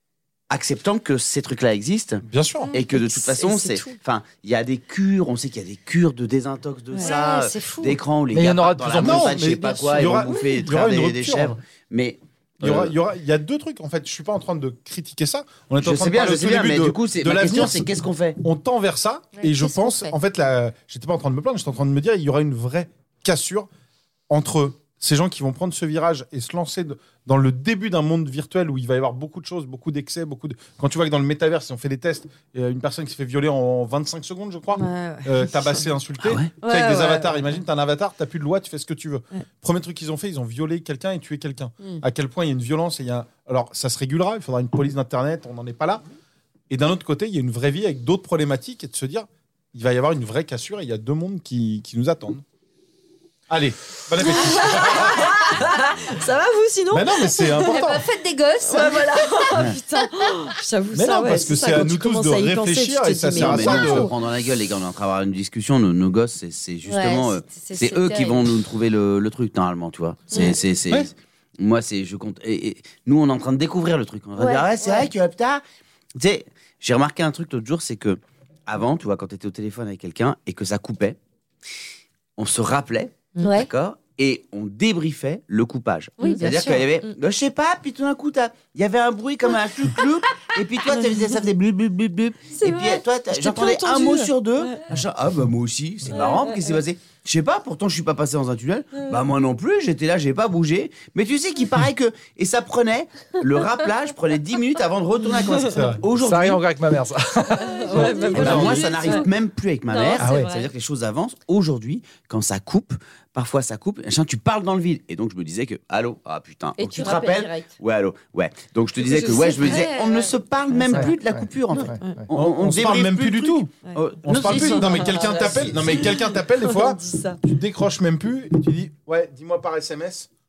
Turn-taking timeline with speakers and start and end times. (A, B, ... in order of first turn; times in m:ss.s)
0:00.5-0:02.2 A
0:02.2-0:02.7 B
0:02.7-0:12.9 A
0:02.7-0:04.0 C
0:07.0-0:08.0 D
0:08.3-0:09.6 E
0:09.0-0:11.6 B
0:12.6-0:23.7 B
0:15.8-0:18.4 A
0:19.4-0:20.1 D
0:24.3-0:46.0 B
0:34.7-0:35.9 C
0:36.2-0:36.5 A
0:36.6-0:37.6 C
0:46.7-0:52.4 B
0:53.5-0:55.6 B
0:54.2-0:57.6 C
0:56.9-0:58.0 B
0:57.6-0:59.5 D
0:58.6-1:03.9 C
1:00.9-1:04.1 B
1:03.4-1:15.6 A
1:03.7-1:04.1 D
1:06.9-1:08.5 D
1:14.4-1:15.1 D
1:16.2-1:21.2 A
1:22.4-1:46.6 A
1:23.4-1:23.7 D
1:26.2-1:27.1 C
1:32.6-1:34.8 C
1:45.6-1:46.0 B
1:46.1-1:48.1 E
1:47.6-1:49.3 D
1:47.7-1:49.3 C
1:48.3-1:48.9 B
1:48.3-2:05.6 A
1:49.9-1:50.6 D
1:50.2-1:50.5 E
1:56.8-1:57.7 D
1:59.0-2:00.3 D
2:00.9-2:02.2 E
2:02.3-2:03.7 B
2:03.8-2:07.4 C
2:04.2-2:10.3 B